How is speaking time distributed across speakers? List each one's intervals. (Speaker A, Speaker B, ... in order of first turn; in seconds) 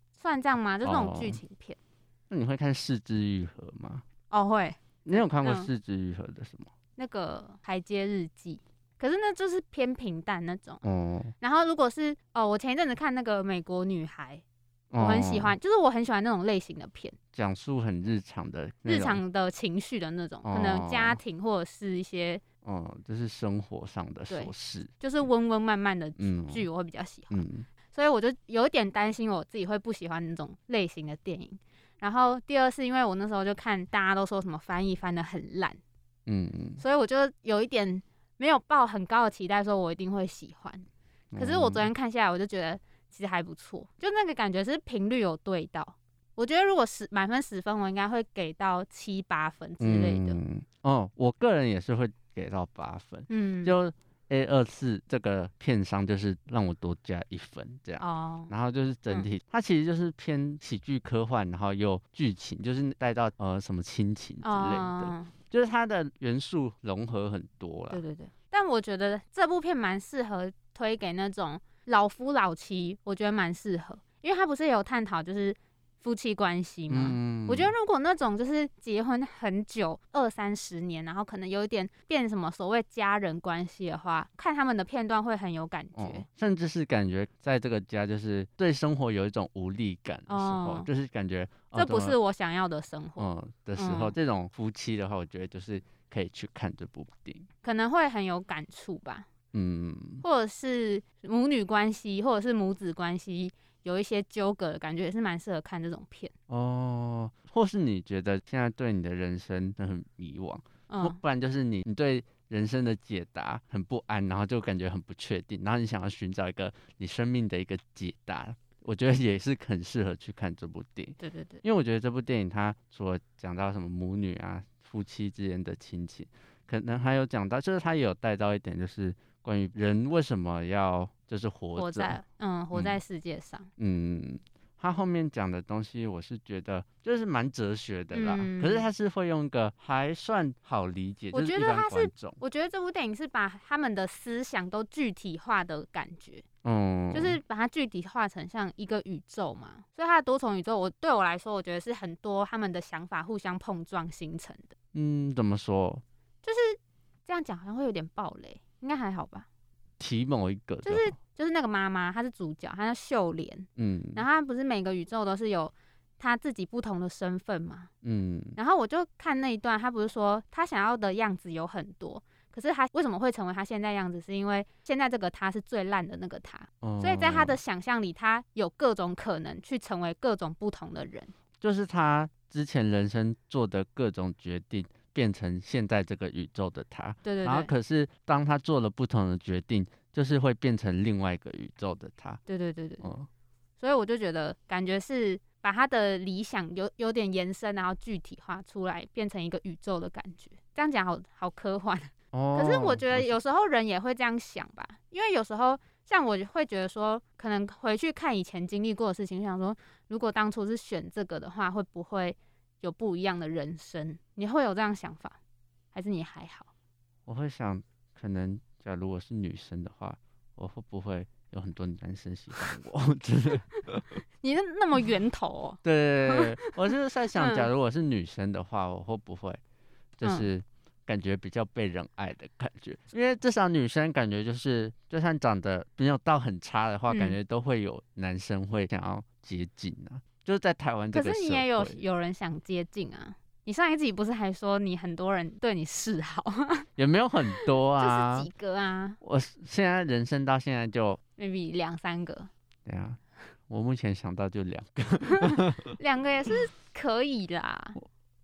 Speaker A: 0.2-1.8, 4.3-5.7, 7.0-10.8, 11.4-14.4, 15.0-17.2, 18.9-22.4, 24.3-35.8, 36.8-40.8, 41.4-50.4, 53.3-53.8, 58.0-58.5, 64.4-65.3, 67.9-86.3, 90.3-90.9, 91.7-94.2, 97.6-99.3, 100.2-106.3, 110.9-111.2, 121.2-121.6, 131.8-133.7, 138.1-138.8, 141.3-146.4, 147.1-154.7, 156.4-159.5, 160.8-167.9, 168.6-181.3, 187.2-187.7, 192.4-193.1, 193.8-215.3, 215.9-216.7, 224.4-226.8, 227.3-227.7, 230.2-230.5, 237.1-237.3, 241.1-246.9, 247.6-249.2, 251.4-252.5, 255.5-258.0
Speaker B: 0.8-1.4, 2.3-4.0, 5.0-6.7, 10.8-11.3, 14.9-15.6, 17.3-19.2, 20.4-21.2, 22.6-24.9, 26.2-26.7, 27.3-27.7, 36.3-36.8, 41.3-41.9, 49.8-68.0, 76.9-77.7, 86.0-92.2, 93.2-97.5, 99.5-100.2, 106.5-132.2, 133.8-142.4, 146.6-147.4, 154.9-156.0, 160.0-161.2, 163.8-164.2, 168.0-168.6, 176.8-177.6, 181.6-192.4, 193.0-193.3, 202.3-203.3, 217.3-224.2, 225.8-229.6, 230.2-242.0, 247.0-248.5, 249.2-251.2, 252.8-256.0